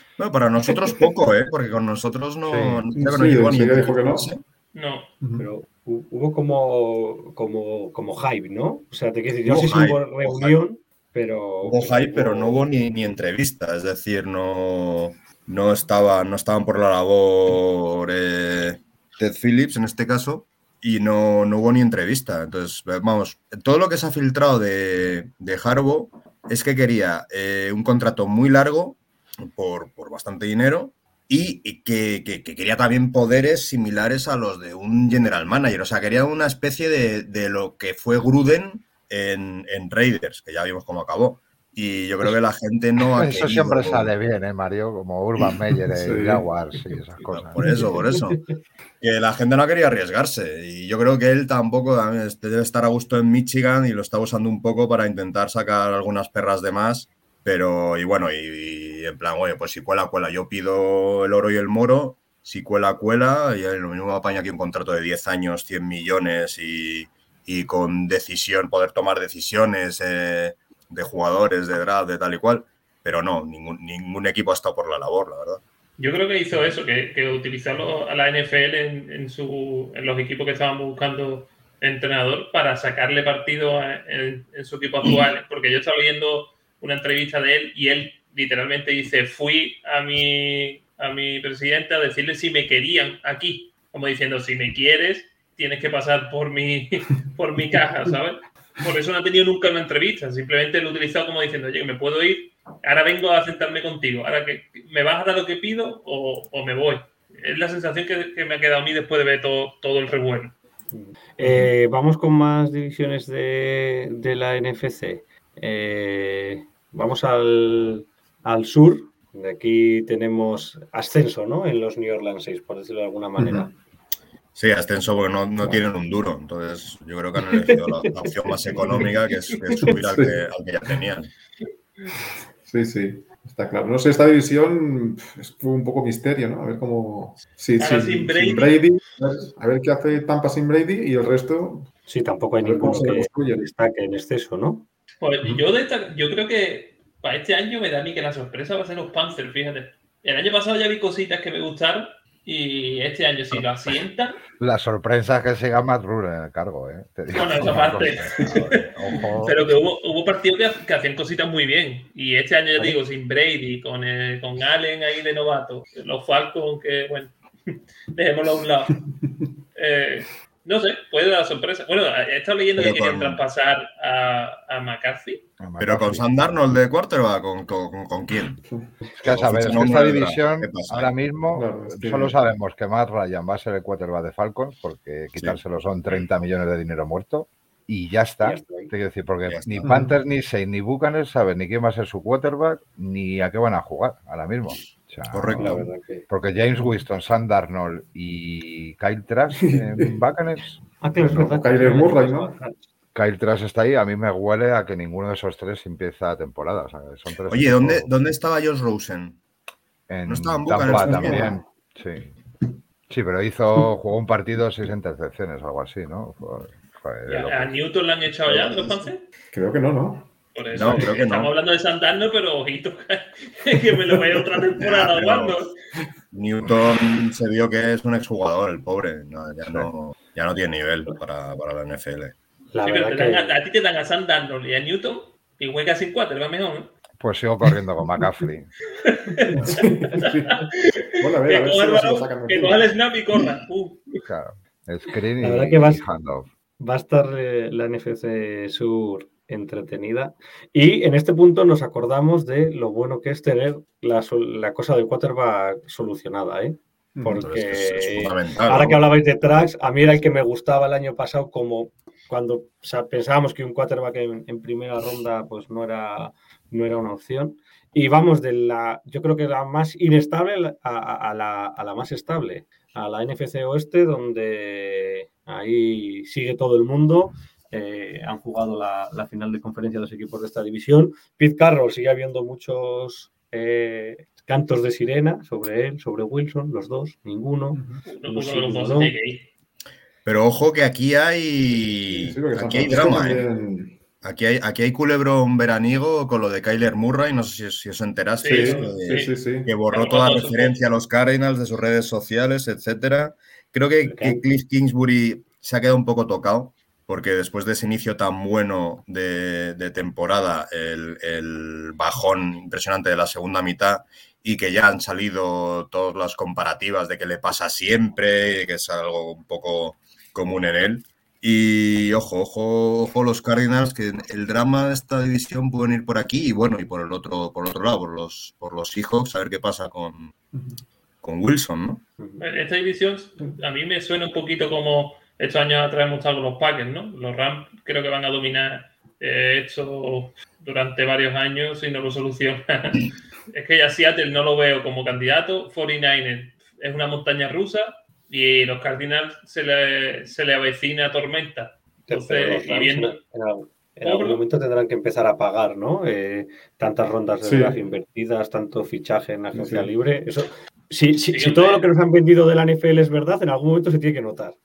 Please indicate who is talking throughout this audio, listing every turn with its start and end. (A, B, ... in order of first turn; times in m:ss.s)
0:00.2-0:04.4 A
0:02.4-0:02.8 B
0:03.0-0:04.3 C
0:04.7-0:05.1 D
0:05.2-0:05.5 C
0:05.4-0:12.7 E
0:09.4-0:10.6 A
0:11.6-0:44.1 A
0:43.0-0:47.7 B
0:45.9-0:46.5 C
0:47.3-0:48.4 A
0:49.0-1:15.6 A
1:16.0-1:50.6 D
1:50.9-2:03.7 E
1:51.4-1:51.7 C
2:03.4-2:03.7 C
2:04.6-2:11.3 A
2:07.5-2:09.1 E
2:09.8-2:10.4 C
2:12.6-2:21.9 C
2:17.8-2:18.9 D
2:22.1-2:24.9 E
2:22.6-2:23.7 C
2:25.2-2:34.4 D
2:34.6-2:39.8 B
2:37.3-2:38.9 D
2:39.4-2:49.0 D
2:49.0-2:49.4 C
2:49.8-2:55.4 D
2:52.8-2:53.4 A
2:55.6-2:56.4 B
2:55.8-2:58.6 A
2:59.2-3:01.1 A
2:59.2-3:20.8 B
3:01.5-3:02.4 C
3:05.4-3:06.3 A
3:08.4-3:08.9 E
3:09.5-3:09.9 A
3:09.8-3:10.1 C
3:15.3-3:15.9 A
3:15.6-3:16.3 E
3:19.7-3:20.1 C
3:21.0-3:22.8 E
3:21.2-3:22.6 C
3:23.2-3:28.1 B
3:27.4-3:29.4 A
3:30.1-3:32.3 B
3:30.3-3:31.4 A
3:30.9-3:31.6 C
3:33.1-3:37.7 B
3:37.3-3:39.2 D
3:38.4-3:39.1 A
3:39.5-3:41.1 C
3:40.6-3:45.7 D
3:40.7-3:41.5 A
3:44.8-3:45.7 A
3:46.3-3:52.4 A
3:46.6-3:47.0 C
3:52.7-3:53.6 E
3:52.8-3:56.9 D
3:57.2-3:58.7 B
3:59.1-4:04.2 D
3:59.5-4:00.7 C
4:01.2-4:03.4 C
4:04.2-4:06.5 B
4:05.4-4:06.0 E
4:06.8-4:49.1 E
4:17.2-4:17.5 C
4:17.4-4:19.1 A
4:47.8-4:48.0 C
4:48.1-4:49.5 D
4:50.2-4:53.5 A
4:52.1-4:54.0 C
4:54.2-5:30.3 A
4:58.4-4:59.3 D
4:58.4-4:59.7 C
4:59.9-5:00.8 D
5:04.0-5:04.4 E
5:31.2-5:32.0 A
5:32.2-5:32.4 E
5:32.4-5:53.2 D
5:52.1-6:04.6 E
5:54.0-5:54.4 D
5:57.4-5:57.8 C
5:59.5-5:59.9 C
6:01.3-6:01.9 D